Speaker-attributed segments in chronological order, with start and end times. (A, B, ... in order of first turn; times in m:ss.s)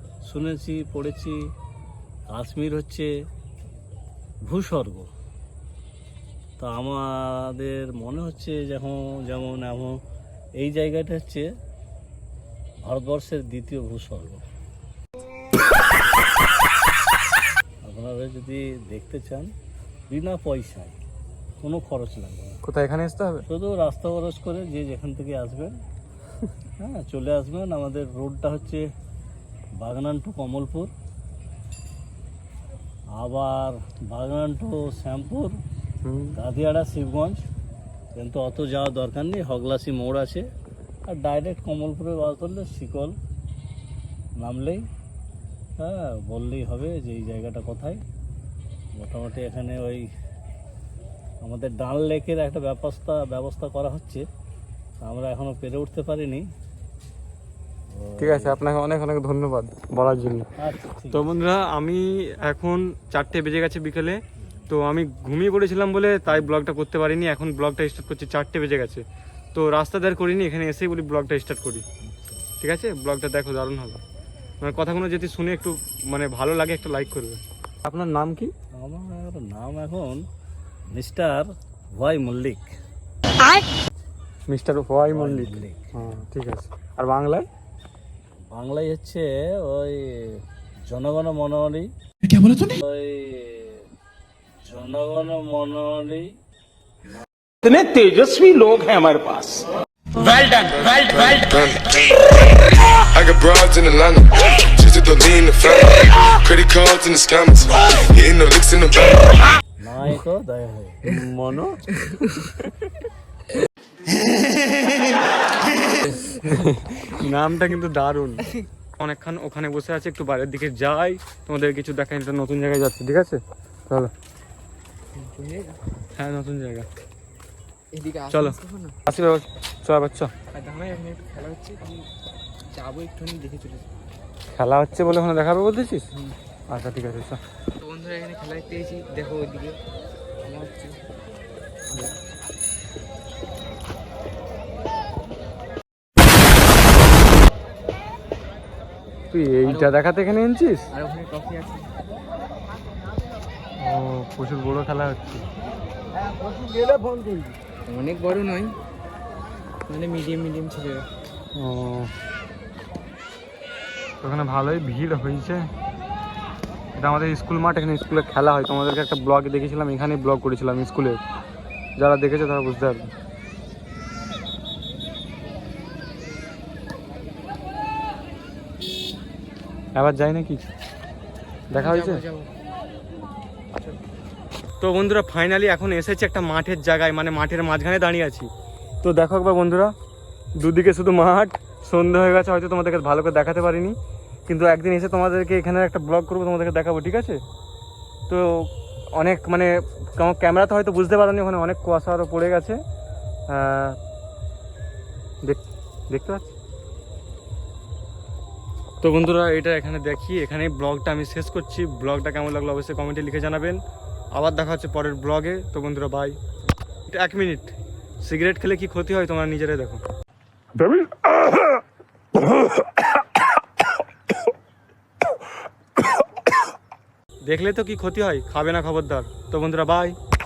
0:00.2-0:01.4 A
0:02.3-0:03.1 A
0:04.4-0:05.1 A
0:06.6-0:10.0 A
0:10.6-0:11.5 A
0:12.8-0:14.4 A
0:17.8-0:19.5 A
0:20.1-0:21.0 A
0:21.6-0:22.6 A
0:22.6-0:23.4 B
0:23.5-0:25.8 A
0:26.8-0:28.9 A
0:29.8-0:30.9 A
0:33.2-0:35.6 A
0:36.0-0:36.4 B
0:36.3-0:37.4 A
0:38.2-0:40.5 A
0:41.1-0:43.2 A
0:44.4-0:44.9 A
0:45.8-0:48.0 A
0:49.0-0:50.1 A
0:51.4-0:54.3 A
0:55.0-0:56.5 A
0:57.9-0:58.6 A
0:58.2-1:00.5 B
1:00.6-1:01.3 A
1:01.1-1:11.8 B
1:12.6-1:14.0 B
1:14.6-1:18.5 B
1:18.8-1:20.2 A
1:20.9-1:22.7 A
1:24.5-1:27.5 B
1:25.1-1:25.9 A
1:28.5-1:33.9 A
1:34.6-1:36.4 A
1:37.6-1:39.7 C
1:40.3-1:49.5 D
1:49.8-1:51.1 A
1:51.0-1:51.8 B
1:52.0-1:52.4 E
1:56.1-2:04.1 B
2:05.1-2:05.8 E
2:06.2-2:06.9 B
2:07.9-2:09.0 E
2:08.3-2:10.3 B
2:10.5-2:12.1 E
2:12.7-2:13.9 E
2:14.6-2:16.1 B
2:16.7-2:17.4 B
2:17.8-2:19.8 E
2:20.4-2:21.0 E
2:29.3-2:30.9 B
2:29.7-2:29.9 E
2:30.9-2:31.9 E
2:33.8-2:35.5 B
2:37.9-2:38.8 E
2:39.9-2:41.1 E
2:41.6-2:42.1 B
2:44.2-2:45.7 B
2:47.0-2:51.2 B
2:52.0-2:53.1 B
3:00.0-3:00.6 B
3:01.7-3:02.2 B
3:01.7-3:02.5 E
3:04.8-3:08.5 B
3:09.0-3:09.9 B
3:10.6-3:14.0 B
3:14.5-3:17.4 B
3:18.3-3:22.8 B
3:23.5-3:24.0 B
3:25.4-3:26.4 B
3:29.0-3:33.8 B
3:34.3-3:36.4 B
3:37.1-3:40.0 B
3:47.5-3:50.2 B